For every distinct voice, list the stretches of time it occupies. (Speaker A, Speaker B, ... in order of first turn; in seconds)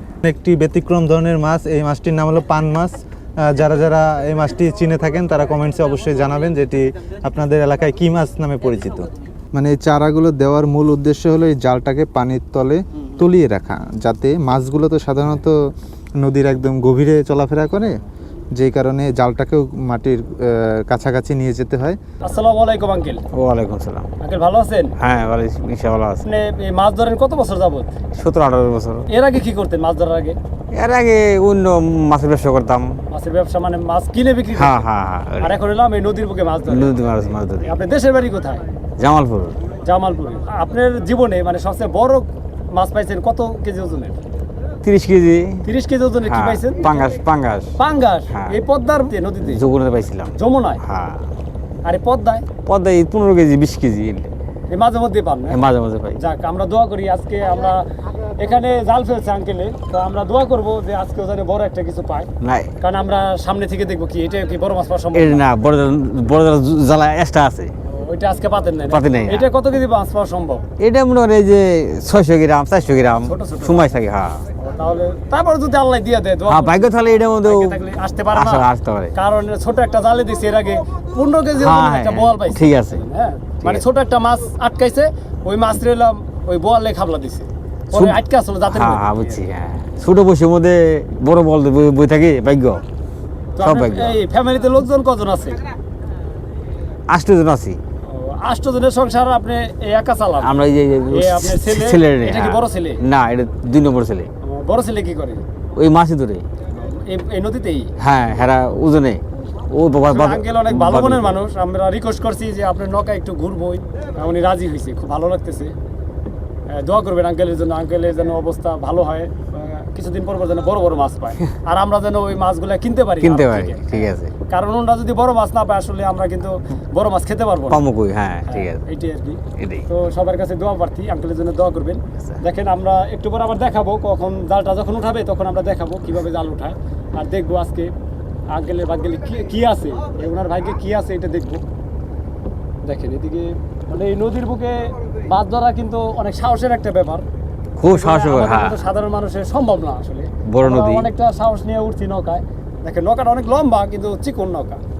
Speaker A: 0.2-15.6, 16.2-17.9, 18.6-22.0
Speaker B: 22.2-23.2, 24.2-24.9, 26.2-27.9, 29.1-30.4, 33.1-34.9, 35.4-37.0, 37.6-38.6, 39.7-44.2, 45.6-47.1, 47.8-49.7, 50.4-50.8, 51.8-52.5, 54.7-55.6, 56.2-62.3, 62.8-65.5, 67.9-70.6, 73.2-73.9, 74.6-76.9, 77.4-89.2, 93.6-95.7, 98.0-100.6, 101.1-103.0, 104.4-105.4, 106.8-107.9, 110.1-115.8, 116.7-127.8, 128.5-137.9, 138.5-141.6, 142.8-147.2, 147.8-154.8
Speaker C: 23.3-24.1, 25.0-26.2, 28.2-29.1, 30.7-32.9, 34.5-35.6, 36.7-37.8, 39.0-39.7, 44.8-45.7, 46.2-47.8, 48.3-48.6, 49.4-51.2, 52.7-54.3, 55.5-56.2, 62.4-62.7, 65.1-67.7, 68.9-69.5, 70.8-74.5, 76.5-77.8, 78.3-79.1, 81.5-83.0, 87.9-92.8, 93.6-94.2, 97.1-97.8, 100.4-104.3, 105.8-106.5, 108.0-111.4, 123.2-124.3, 127.7-128.8, 129.6-129.9, 147.8-148.8, 150.5-151.1